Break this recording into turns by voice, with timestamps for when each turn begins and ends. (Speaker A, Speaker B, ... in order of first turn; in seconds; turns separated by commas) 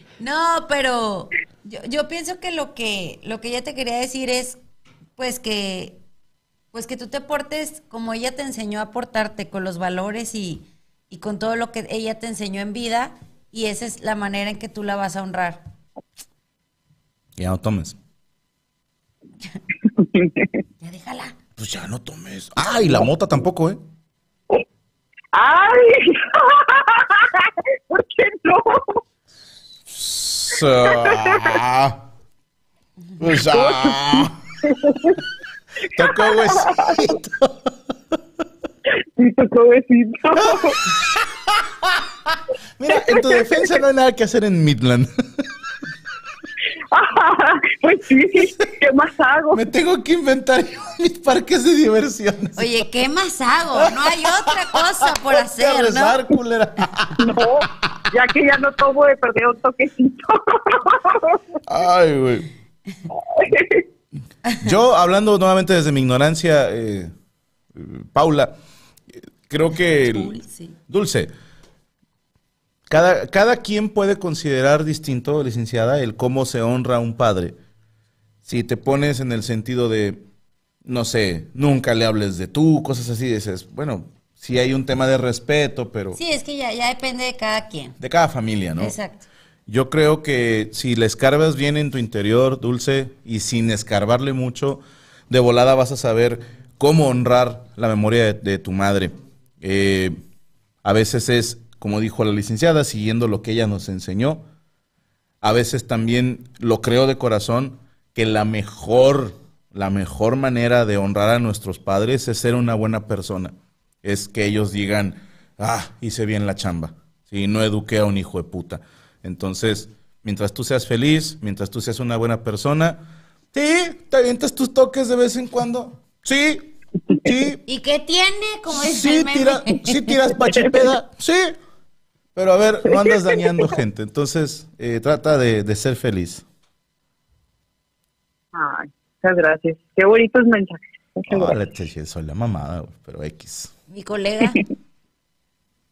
Speaker A: 0.2-4.6, Speaker A: 5.2-6.0, Speaker A: 6.7-15.6, Speaker B: 17.4-18.0, Speaker C: 20.0-20.4, Speaker A: 20.8-21.4, Speaker B: 21.6-23.8, Speaker C: 25.3-29.0, Speaker B: 29.9-32.0, Speaker C: 30.8-31.5, Speaker B: 33.2-34.4, Speaker C: 33.5-35.2, Speaker B: 35.9-37.7, Speaker C: 36.0-37.2, Speaker C: 39.2-40.8, Speaker B: 40.3-45.5, Speaker C: 43.1-43.6, Speaker C: 46.9-49.6, Speaker B: 49.5-52.8, Speaker A: 52.6-56.2, Speaker B: 53.8-57.3, Speaker C: 57.2-61.4, Speaker B: 61.6-62.5, Speaker C: 63.2-63.8, Speaker B: 64.6-67.1, Speaker B: 67.7-68.5, Speaker B: 69.5-71.3, Speaker A: 70.0-70.8, Speaker B: 72.9-77.5, Speaker B: 78.4-80.2, Speaker B: 80.8-86.2, Speaker A: 86.1-88.0, Speaker B: 88.0-88.9, Speaker A: 88.8-89.2, Speaker B: 89.7-100.2, Speaker B: 100.8-104.4, Speaker B: 105.4-127.6, Speaker A: 127.7-130.1, Speaker B: 128.7-131.6, Speaker B: 132.3-136.4, Speaker C: 132.9-133.7, Speaker C: 138.5-141.6, Speaker B: 141.3-143.7, Speaker A: 143.9-144.6